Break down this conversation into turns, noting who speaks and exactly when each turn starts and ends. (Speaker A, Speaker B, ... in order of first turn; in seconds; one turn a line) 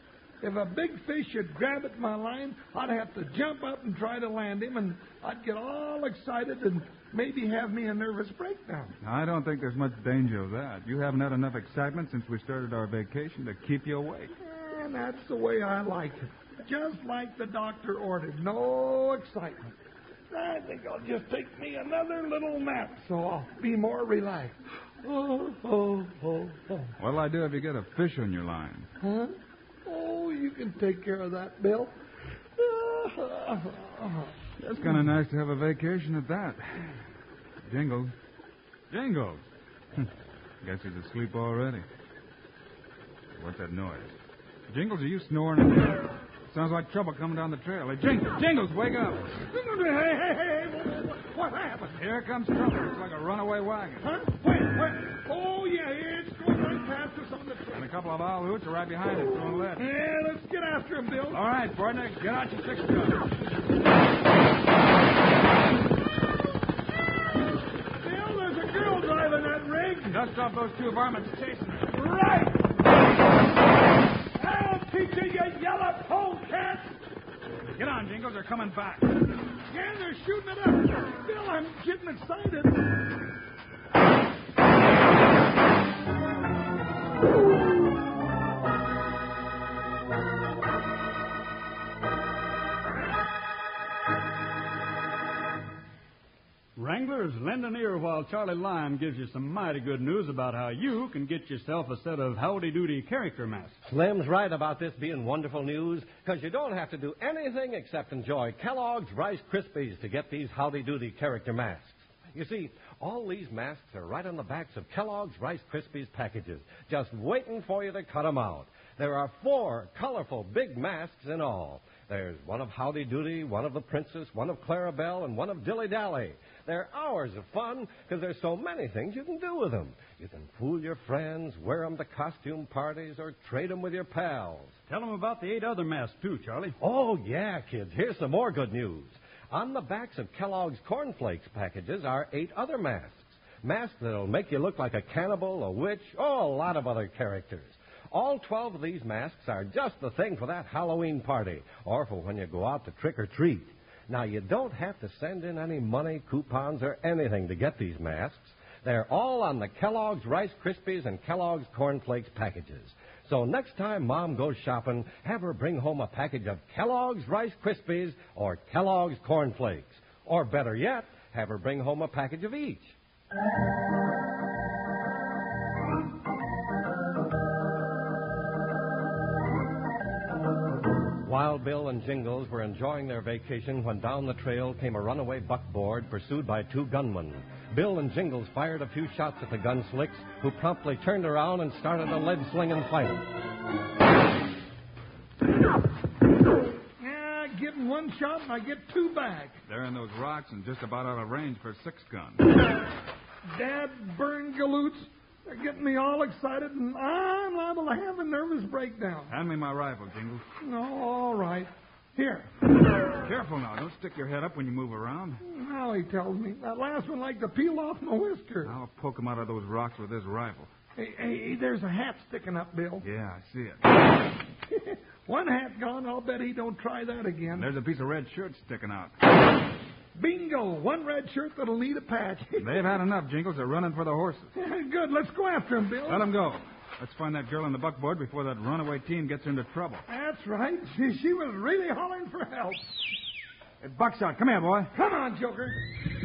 Speaker A: 0.4-8.9
Speaker B: 9.0-14.3
Speaker A: 14.4-19.7
Speaker A: 20.3-26.9
Speaker B: 27.0-28.9
Speaker A: 29.0-31.9
Speaker A: 32.6-35.1
Speaker B: 34.6-37.0
Speaker B: 37.6-38.1
Speaker B: 38.9-39.4
Speaker B: 40.6-41.8
Speaker B: 43.4-44.1
Speaker B: 44.7-49.3
Speaker A: 49.4-52.0
Speaker B: 51.9-54.1
Speaker A: 54.0-57.9
Speaker B: 57.7-59.9
Speaker A: 59.7-61.4
Speaker B: 61.3-63.2
Speaker A: 67.9-70.2
Speaker B: 70.1-71.9
Speaker A: 71.9-72.6
Speaker A: 74.3-77.0
Speaker B: 77.7-79.1
Speaker A: 79.7-82.8
Speaker C: 96.8-103.8
Speaker D: 103.8-134.8
Speaker C: 134.9-136.8
Speaker D: 136.8-172.9
Speaker D: 181.2-193.2
Speaker A: 197.0-199.6
Speaker B: 199.7-202.4
Speaker A: 203.5-209.3
Speaker B: 209.3-210.4
Speaker A: 210.6-212.5
Speaker B: 213.2-215.4
Speaker A: 215.4-218.7
Speaker B: 218.6-220.7
Speaker A: 220.9-223.1
Speaker B: 223.0-223.8
Speaker A: 224.7-227.7
Speaker B: 227.5-229.1
Speaker A: 230.1-232.9
Speaker B: 232.6-234.5
Speaker A: 234.6-236.3
Speaker B: 236.1-240.1
Speaker A: 240.1-242.8
Speaker B: 243.8-244.9
Speaker A: 244.9-245.8